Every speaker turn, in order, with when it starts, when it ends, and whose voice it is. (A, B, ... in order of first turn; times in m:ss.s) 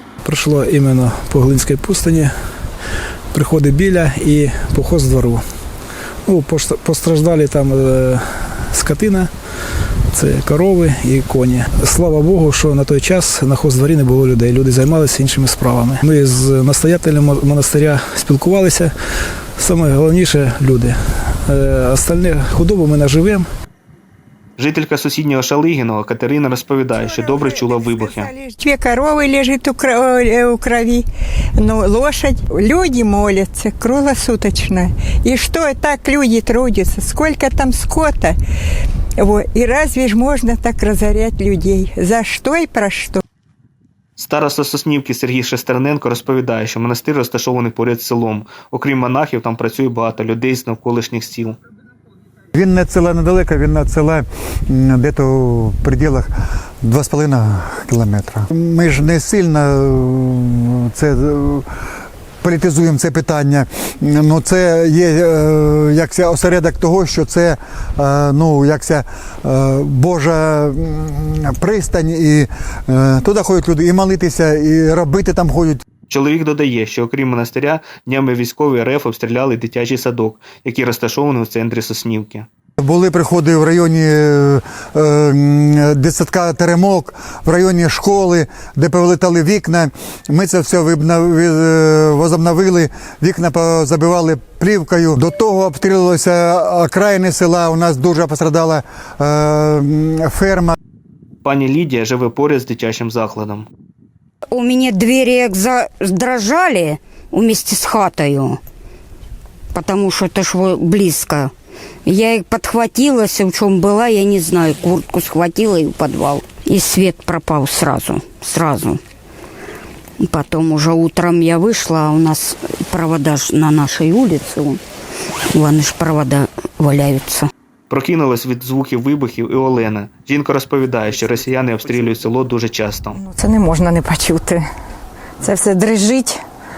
0:00.2-0:02.3 A
0:03.3-0:05.4 A
0:06.2-0:09.3 A
0:10.1-0:18.9 A
0:19.6-0:21.0 A
0:21.5-0:23.5 A
0:24.6-0:28.3 B
0:26.9-0:31.0 C
0:31.6-0:38.4 C
0:39.2-0:43.2 C
0:44.2-0:51.6 B
0:52.5-0:56.3 D
0:56.8-1:01.6 D
1:02.4-1:15.8 D
1:16.1-1:22.5 B
1:22.8-1:40.7 D
1:41.4-1:43.7 B
1:44.5-1:48.6 E
1:49.7-1:51.5 E
1:52.0-1:59.0 E
2:00.2-2:04.8 E
2:05.5-2:07.5 E
2:07.9-2:13.2 B
2:13.2-2:14.6 F
2:15.4-2:16.4 F